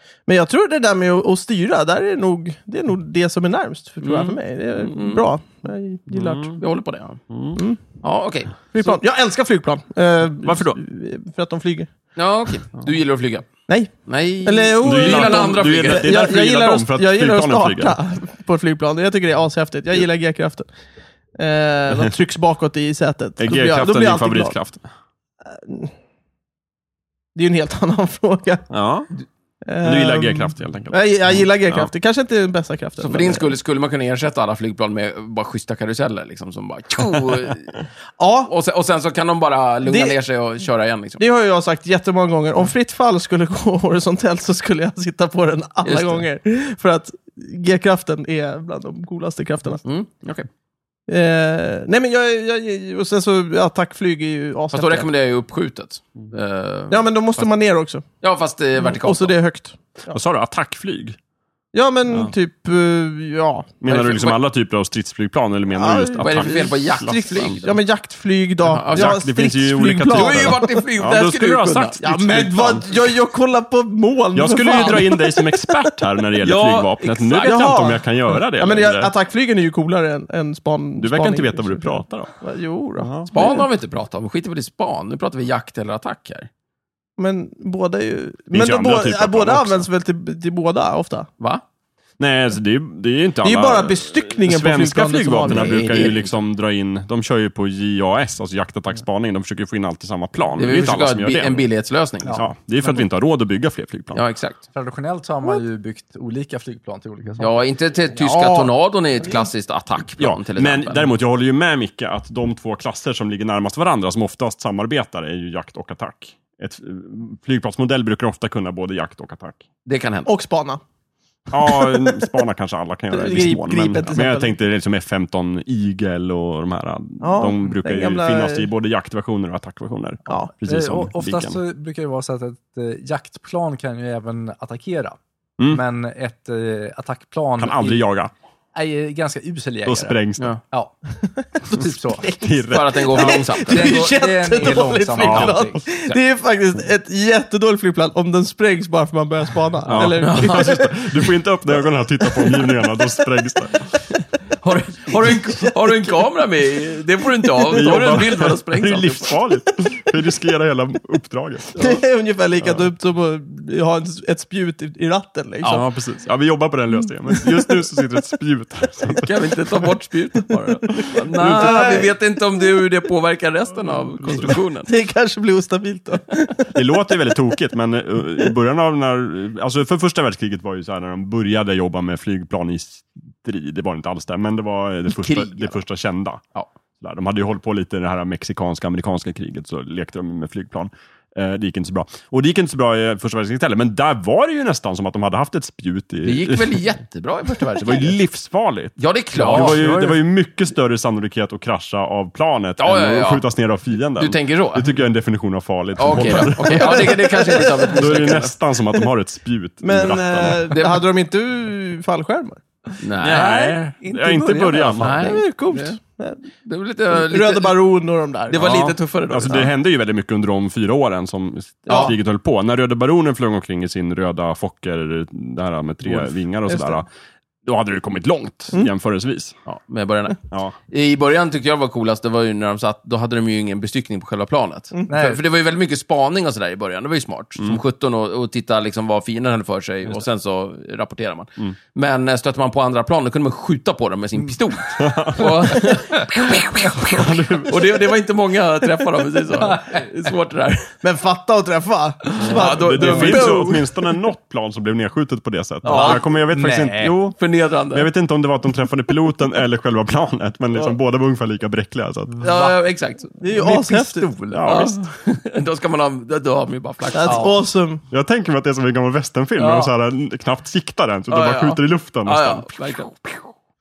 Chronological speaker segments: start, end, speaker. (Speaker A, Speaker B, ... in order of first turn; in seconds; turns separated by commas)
Speaker A: 0.3-6.6, Speaker B: 4.0-5.2, Speaker C: 6.1-6.6, Speaker B: 6.6-9.0, Speaker C: 7.3-7.6, Speaker A: 7.6-7.8, Speaker A: 8.7-11.9, Speaker C: 10.4-10.8, Speaker B: 12.2-13.5, Speaker A: 13.7-20.7, Speaker B: 14.0-16.1, Speaker C: 14.8-18.0, Speaker A: 21.4-24.6, Speaker C: 23.4-24.9, Speaker A: 25.5-25.9, Speaker A: 27.4-28.7, Speaker C: 28.7-29.1, Speaker A: 29.7-33.5, Speaker C: 29.8-31.9, Speaker B: 33.0-37.8, Speaker A: 38.2-38.5, Speaker B: 38.5-41.2, Speaker A: 39.9-40.2, Speaker A: 41.2-49.8, Speaker B: 45.8-46.2, Speaker B: 49.8-50.5, Speaker A: 51.1-55.1, Speaker B: 54.7-57.5, Speaker A: 56.9-58.0, Speaker B: 58.2-59.4, Speaker A: 58.8-60.2, Speaker C: 60.1-61.2, Speaker A: 61.7-63.8, Speaker C: 63.8-67.6, Speaker B: 63.9-64.4, Speaker A: 65.7-66.7, Speaker B: 66.2-67.8, Speaker A: 67.6-70.8, Speaker B: 68.6-69.2, Speaker C: 68.9-73.0, Speaker B: 70.1-72.0, Speaker A: 72.0-75.9, Speaker C: 74.3-79.1, Speaker B: 76.4-77.6, Speaker A: 77.3-78.0, Speaker A: 78.6-83.7, Speaker C: 81.0-82.3, Speaker C: 83.0-83.3, Speaker B: 83.3-86.5, Speaker A: 87.2-91.3, Speaker C: 88.5-89.9, Speaker C: 92.2-101.7, Speaker A: 93.4-96.2, Speaker B: 95.5-96.3, Speaker B: 100.6-102.3, Speaker D: 102.2-103.0, Speaker C: 102.2-104.2, Speaker B: 104.1-104.6, Speaker D: 104.7-107.6, Speaker B: 107.4-111.1, Speaker A: 108.2-108.7, Speaker A: 109.2-109.5, Speaker C: 110.2-119.6, Speaker B: 119.9-120.3, Speaker A: 120.2-120.8, Speaker C: 121.5-131.6, Speaker A: 121.7-122.2, Speaker A: 123.1-124.5, Speaker A: 127.2-128.7, Speaker D: 130.7-138.0, Speaker C: 137.6-138.3, Speaker D: 138.7-140.9, Speaker C: 139.8-140.5, Speaker A: 141.2-150.9, Speaker D: 141.5-142.3, Speaker C: 141.7-143.4, Speaker B: 142.7-144.0, Speaker D: 143.6-145.8, Speaker C: 145.2-145.6, Speaker C: 149.9-153.7, Speaker B: 150.2-150.8, Speaker A: 152.3-153.0, Speaker B: 154.6-159.4, Speaker A: 155.5-156.1, Speaker C: 157.7-161.8, Speaker A: 161.8-165.8, Speaker C: 162.6-162.9, Speaker C: 165.7-169.3, Speaker A: 167.3-167.8, Speaker B: 169.2-174.9, Speaker C: 170.9-171.9, Speaker A: 171.0-172.1, Speaker C: 173.9-174.5, Speaker A: 174.9-176.8, Speaker C: 176.7-186.4, Speaker B: 185.1-185.8, Speaker C: 187.0-196.8, Speaker B: 196.2-198.2, Speaker C: 197.8-210.8, Speaker B: 199.0-199.9, Speaker D: 199.4-200.2, Speaker B: 202.8-203.4, Speaker B: 204.2-204.9, Speaker B: 206.0-208.6, Speaker A: 206.8-207.9, Speaker A: 209.8-212.6, Speaker B: 210.7-211.0, Speaker B: 213.0-213.6, Speaker C: 213.2-215.3, Speaker D: 213.3-215.9, Speaker B: 215.0-215.9, Speaker A: 215.1-216.4, Speaker B: 216.6-217.8, Speaker A: 217.1-218.6, Speaker B: 218.5-219.7, Speaker C: 218.6-227.1, Speaker B: 221.9-222.1, Speaker A: 221.9-222.1, Speaker C: 227.7-229.6, Speaker B: 229.7-250.9, Speaker C: 230.5-230.8, Speaker D: 235.1-235.4, Speaker C: 245.0-246.0, Speaker C: 246.8-247.9, Speaker D: 249.6-250.0, Speaker A: 251.0-253.8, Speaker B: 252.4-253.8, Speaker C: 252.4-257.4, Speaker B: 255.8-256.2, Speaker D: 255.8-257.2, Speaker B: 257.3-258.1, Speaker C: 257.9-262.4, Speaker D: 262.4-262.8, Speaker B: 262.4-263.3, Speaker A: 263.4-264.3, Speaker D: 263.5-264.8, Speaker C: 264.5-265.0, Speaker B: 264.6-267.6, Speaker A: 267.1-268.0, Speaker D: 267.2-267.5, Speaker C: 268.1-272.9, Speaker B: 269.6-269.9, Speaker B: 271.3-273.5